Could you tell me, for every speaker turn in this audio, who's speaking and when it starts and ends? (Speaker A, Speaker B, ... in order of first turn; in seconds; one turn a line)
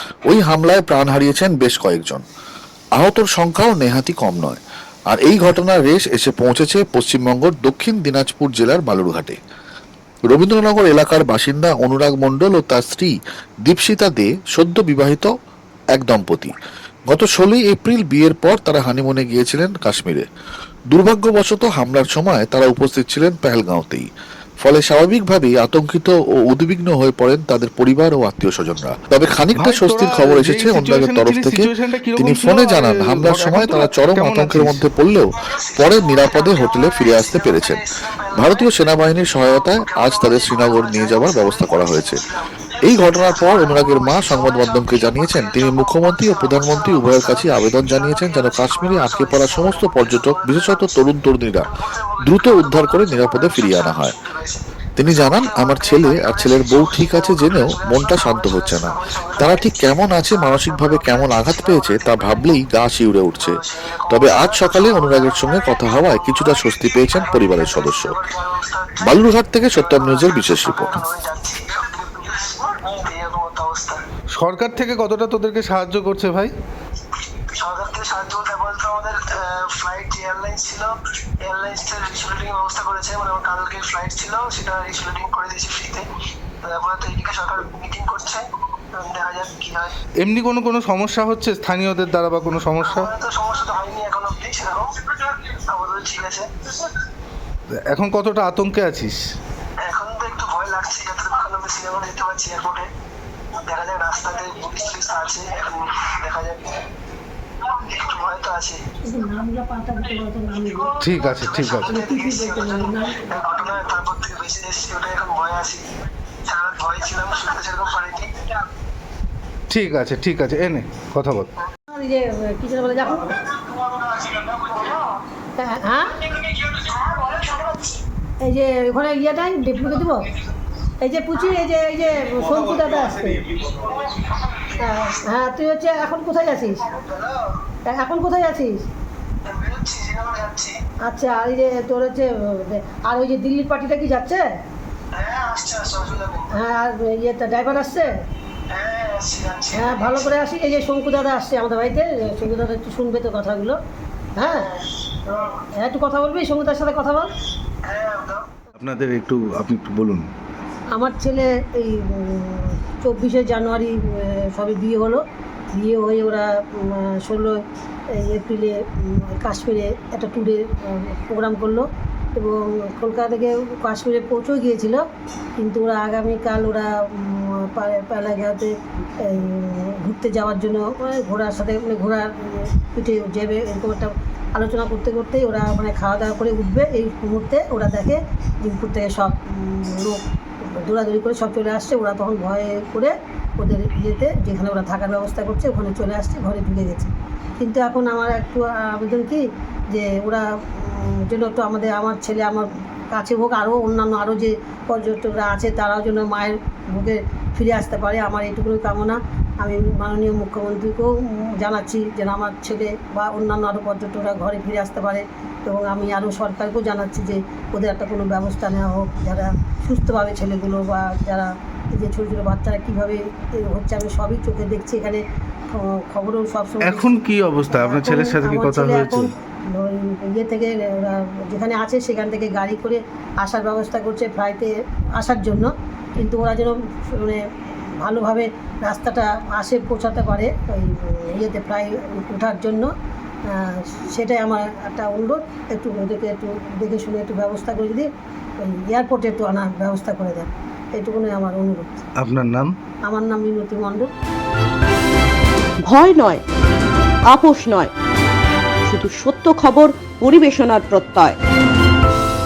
Speaker A: 0.3-2.2
Speaker A: 3.0-9.4
Speaker A: 10.3-13.1
Speaker A: 13.7-15.3
Speaker A: 15.9-16.5
Speaker A: 17.1-20.2
Speaker A: 20.9-24.1
Speaker A: 24.6-42.2
Speaker B: 29.5-34.8
Speaker C: 35.4-51.0
Speaker A: 42.8-51.7
Speaker C: 51.7-62.6
Speaker A: 52.2-54.1
Speaker A: 55.0-63.6
Speaker C: 63.3-74.0
Speaker A: 64.1-68.2
Speaker A: 69.0-71.0
Speaker B: 74.4-76.5
Speaker C: 77.5-86.1
Speaker C: 86.6-89.9
Speaker B: 90.2-93.1
Speaker C: 92.8-96.9
Speaker B: 97.7-99.2
Speaker C: 99.8-102.9
Speaker C: 103.6-106.8
Speaker C: 107.6-108.8
Speaker D: 109.0-113.5
Speaker B: 111.0-112.0
Speaker C: 111.5-115.8
Speaker C: 116.5-118.5
Speaker B: 119.7-121.5
Speaker D: 121.9-123.3
Speaker C: 123.4-125.2
Speaker D: 125.6-126.3
Speaker C: 126.3-128.0
Speaker D: 128.4-130.3
Speaker D: 131.0-133.6
Speaker C: 133.6-134.7
Speaker D: 134.7-136.8
Speaker C: 136.8-137.6
Speaker D: 137.9-138.7
Speaker C: 139.4-140.7
Speaker D: 141.0-144.4
Speaker C: 145.1-146.5
Speaker D: 146.5-148.1
Speaker C: 148.7-150.3
Speaker D: 149.7-153.8
Speaker D: 154.3-154.7
Speaker C: 154.4-154.9
Speaker D: 155.3-157.3
Speaker C: 157.8-158.5
Speaker B: 158.8-160.3
Speaker D: 160.9-165.2
Speaker D: 165.7-167.6
Speaker D: 168.1-175.0
Speaker D: 175.6-178.7
Speaker D: 179.2-237.4
Speaker B: 226.8-229.3
Speaker D: 238.0-242.9
Speaker D: 243.5-248.1
Speaker D: 248.6-252.0
Speaker B: 252.2-252.7
Speaker D: 253.0-254.1
Speaker E: 255.8-256.4
Speaker E: 257.3-257.9
Speaker E: 258.9-261.4